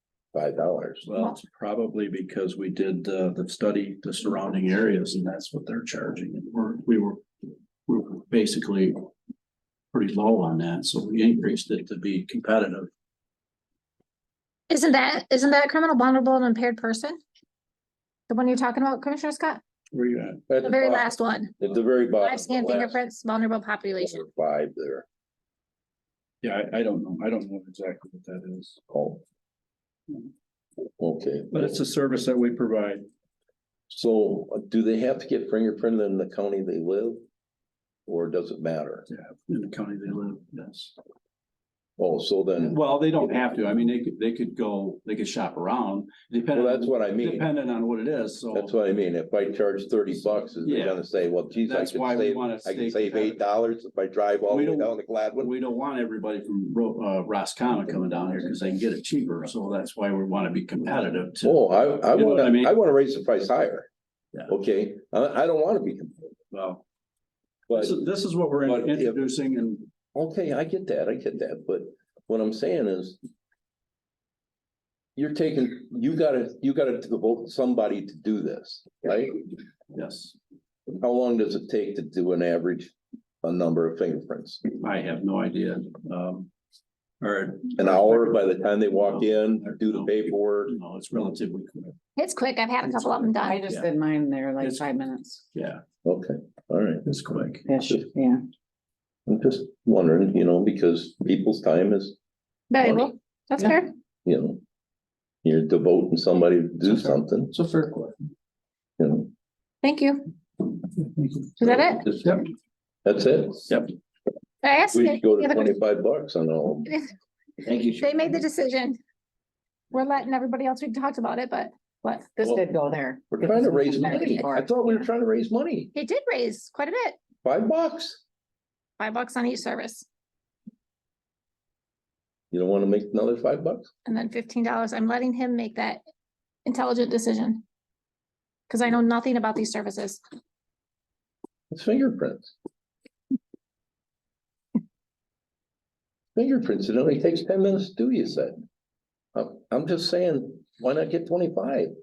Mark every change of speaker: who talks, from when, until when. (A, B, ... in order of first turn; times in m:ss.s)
0:00.3-0:01.1 A
0:01.0-0:07.2 B
0:07.9-0:09.0 B
0:09.9-0:12.9 B
0:14.7-0:17.2 C
0:18.3-0:19.6 C
0:19.9-0:20.4 B
0:20.5-0:23.0 A
0:20.6-0:21.5 C
0:22.2-0:24.2 C
0:24.0-0:25.1 A
0:26.4-0:28.8 B
0:28.9-0:29.2 A
0:31.0-0:31.8 A
0:31.5-0:33.0 B
0:33.9-0:37.2 A
0:38.1-0:39.1 A
0:39.1-0:40.9 B
0:42.0-0:42.8 A
0:42.6-0:48.7 B
0:46.5-0:47.5 A
0:48.5-0:55.5 A
0:50.6-0:53.4 B
0:54.5-1:02.8 B
1:01.4-1:03.9 A
1:04.5-1:06.3 A
1:06.5-1:06.8 B
1:07.7-1:08.0 A
1:07.7-1:09.9 B
1:08.6-1:09.2 A
1:10.2-1:13.2 A
1:15.2-1:19.4 A
1:19.9-1:20.4 B
1:20.9-1:24.6 A
1:24.8-1:26.5 B
1:27.2-1:32.0 B
1:27.8-1:30.8 A
1:32.2-1:33.6 C
1:33.4-1:35.4 D
1:33.6-1:33.9 B
1:34.6-1:35.0 B
1:35.5-1:35.8 B
1:36.0-1:37.0 A
1:37.0-1:37.8 B
1:37.7-1:38.4 D
1:39.3-1:42.2 A
1:42.7-1:43.9 C
1:42.8-1:43.1 A
1:44.2-1:44.6 A
1:45.4-1:47.5 A
1:46.8-1:48.3 B
1:49.0-1:49.3 A
1:49.8-1:50.2 C
1:51.1-1:51.5 B
1:51.6-1:52.1 C
1:53.0-1:53.7 A
1:54.6-1:55.8 C
1:54.9-1:57.0 A
1:57.6-1:57.9 B
1:58.0-1:59.0 C
1:59.9-2:02.3 C
2:02.4-2:04.7 D
2:02.4-2:02.7 A
2:03.3-2:05.9 A
2:05.9-2:07.2 C
2:07.4-2:08.2 A
2:09.0-2:10.0 C
2:12.5-2:13.9 A
2:14.1-2:16.0 C
2:16.6-2:17.6 C
2:18.7-2:20.2 C
2:21.7-2:22.5 A
2:26.4-2:28.6 A
2:29.4-2:31.9 A